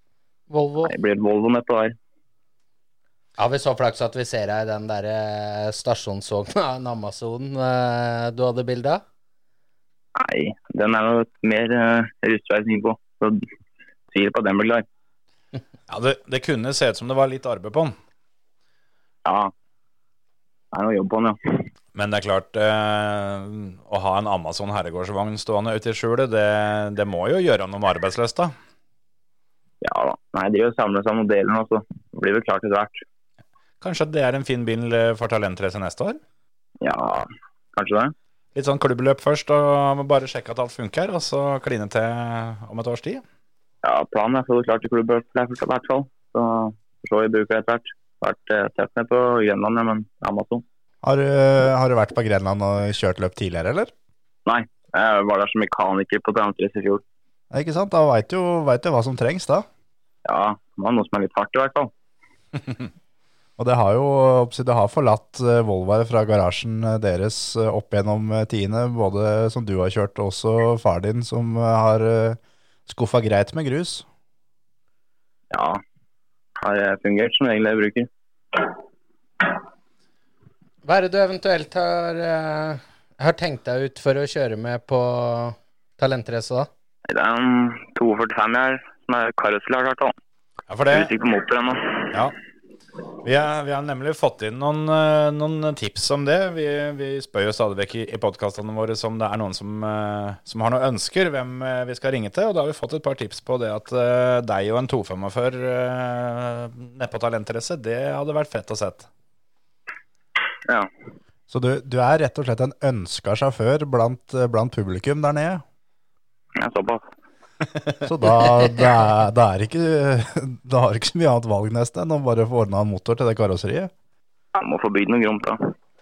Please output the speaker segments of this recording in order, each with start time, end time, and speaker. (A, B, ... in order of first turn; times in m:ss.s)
0:00.5-0:00.9 A
0:00.8-0:02.0 B
0:03.4-0:09.0 A
0:10.2-0:13.4 B
0:14.1-0:14.9 B
0:15.9-0:18.0 C
0:19.2-0:19.5 B
0:20.7-0:21.7 B
0:22.0-0:28.5 C
0:29.8-0:33.0 B
0:33.8-0:36.2 C
0:36.8-0:38.1 B
0:38.6-0:43.2 C
0:43.8-0:50.6 B
0:51.0-0:53.9 D
0:54.5-0:57.0 B
0:57.5-0:59.7 D
1:00.2-1:01.9 B
1:03.6-1:14.0 D
1:15.5-1:15.8 B
1:16.6-1:18.7 B
1:20.8-1:26.7 A
1:27.1-1:30.1 B
1:30.7-1:31.1 C
1:30.9-1:32.2 B
1:33.2-1:49.1 C
1:51.5-1:55.6 D
1:56.6-1:57.0 B
1:58.0-2:03.9 D
2:04.6-2:05.7 B